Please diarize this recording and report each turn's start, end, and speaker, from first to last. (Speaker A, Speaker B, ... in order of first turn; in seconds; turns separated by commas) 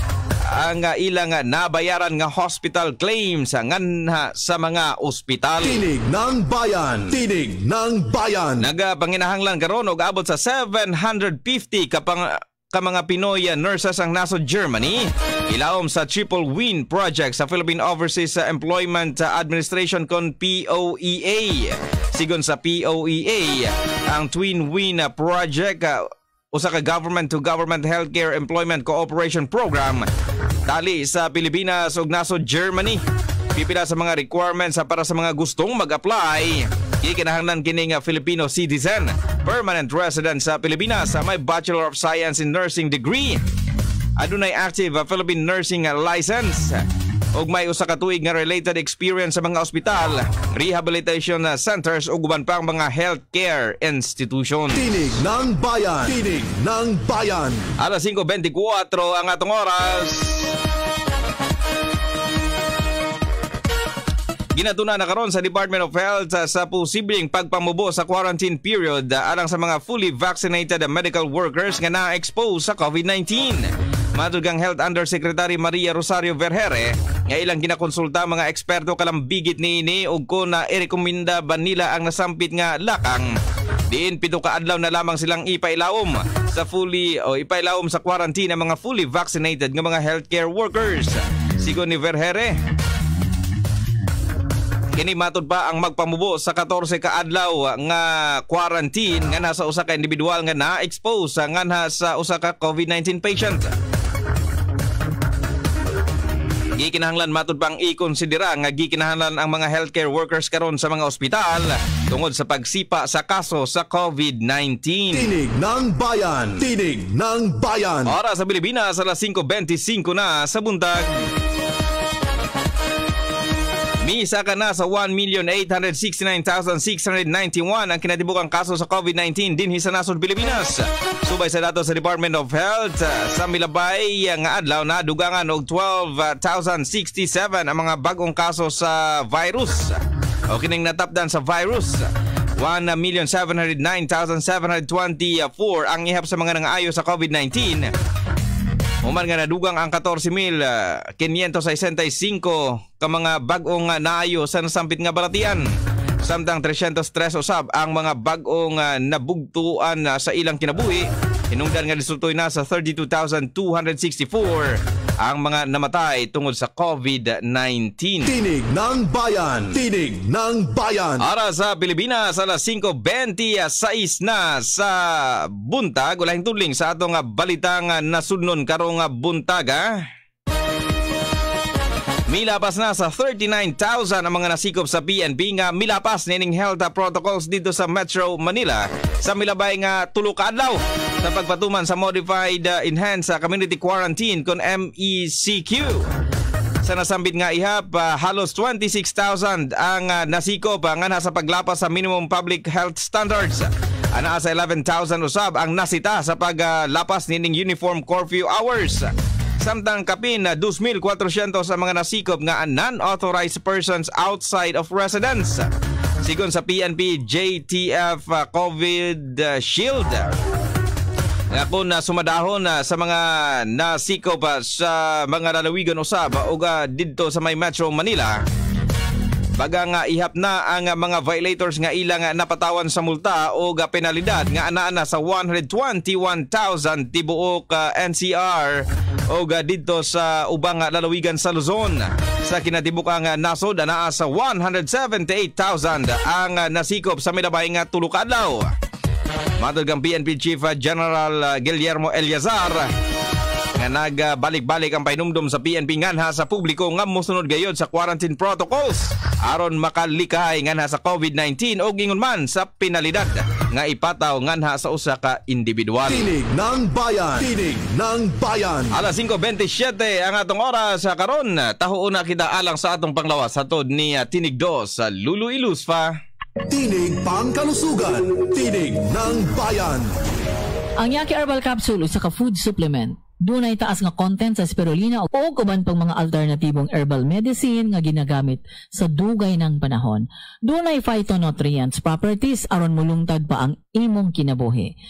Speaker A: 0.5-5.8, Speaker B: 5.6-8.7, Speaker A: 8.6-30.1, Speaker A: 30.7-33.0, Speaker A: 33.5-43.4, Speaker A: 44.2-46.8, Speaker A: 47.4-54.8, Speaker B: 54.7-57.7, Speaker A: 57.8-60.5, Speaker A: 64.5-83.3, Speaker A: 83.9-92.6, Speaker A: 94.9-103.7, Speaker A: 106.8-115.3, Speaker B: 115.1-118.1, Speaker A: 118.1-121.2, Speaker A: 124.0-140.0, Speaker A: 140.5-147.9, Speaker A: 149.0-155.6, Speaker A: 156.2-168.3, Speaker B: 168.2-171.2, Speaker A: 171.2-179.8, Speaker A: 182.3-196.1, Speaker A: 196.8-215.7, Speaker A: 216.2-220.3, Speaker A: 221.5-228.4, Speaker A: 229.6-248.7, Speaker A: 249.6-252.9, Speaker A: 253.8-266.3, Speaker B: 266.1-268.9, Speaker A: 268.9-276.1, Speaker B: 276.7-280.1, Speaker C: 281.0-294.9